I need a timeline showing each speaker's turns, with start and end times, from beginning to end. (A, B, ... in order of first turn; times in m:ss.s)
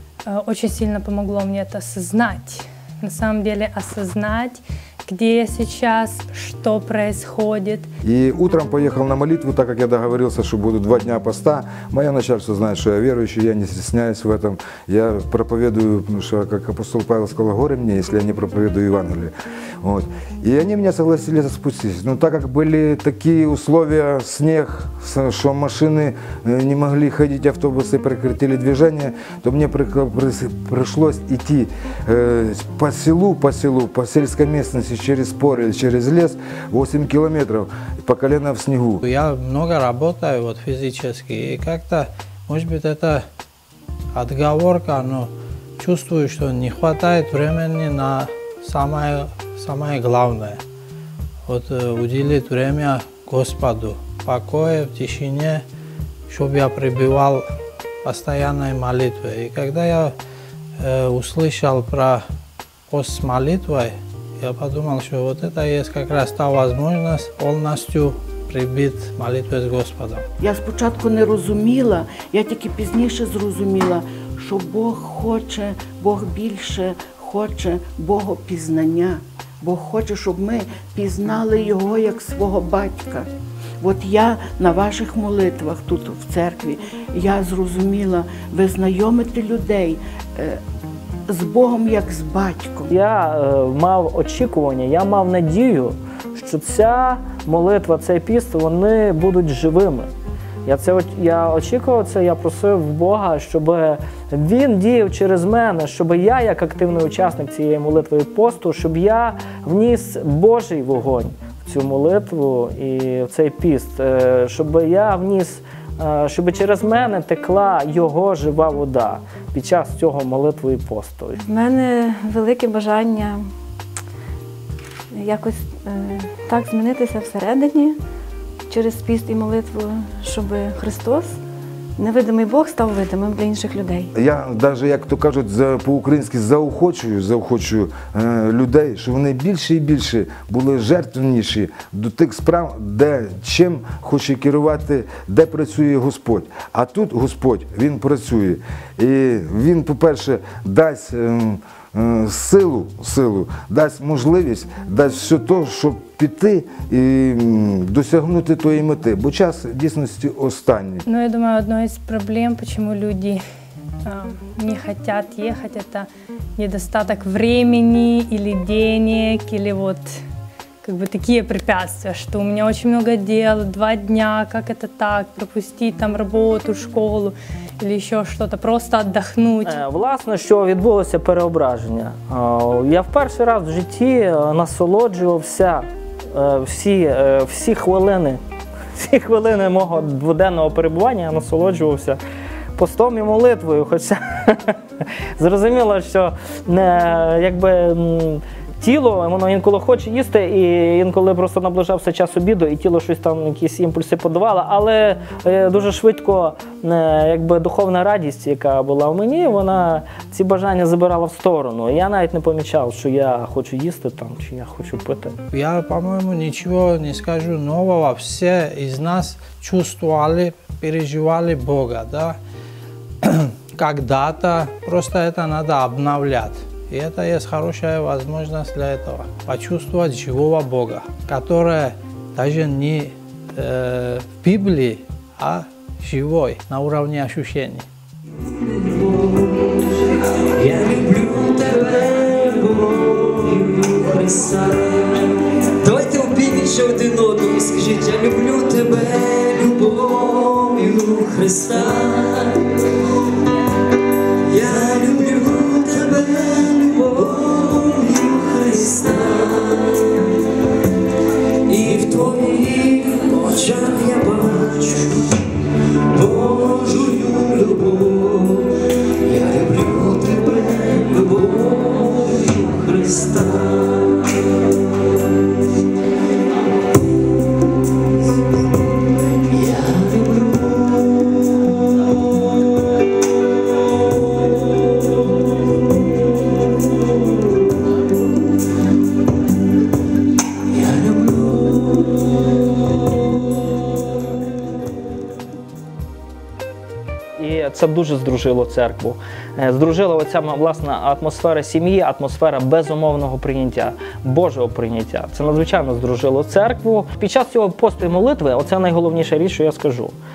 0:00.3-0:07.9 A
0:08.0-0:39.0 B
0:39.0-0:43.2 C
0:44.1-0:50.6 C
0:51.5-0:55.6 C
0:56.3-0:57.5 C
0:58.0-1:00.2 C
1:00.8-1:02.3 C
1:02.9-1:10.2 C
1:10.4-1:23.3 D
1:23.8-1:30.6 D
1:31.3-1:32.9 D
1:32.9-1:40.1 E
1:40.6-2:01.4 E
2:01.4-2:03.5 F
2:05.1-2:08.0 F
2:08.7-2:11.4 F
2:12.0-2:14.1 F
2:14.2-2:41.0 B
2:41.1-2:43.4 A
2:44.0-2:50.2 A
2:50.8-2:59.8 A
2:59.6-3:08.4 E
3:08.9-3:12.2 E
3:12.8-3:14.8 E
3:15.4-3:35.4 E
3:35.5-3:42.4 C
3:43.2-3:57.9 C
4:00.6-4:12.6 G
4:14.5-4:19.9 G
4:21.7-4:25.2 G
4:26.1-4:28.7 G
4:29.2-4:34.0 G
4:57.4-5:10.2 E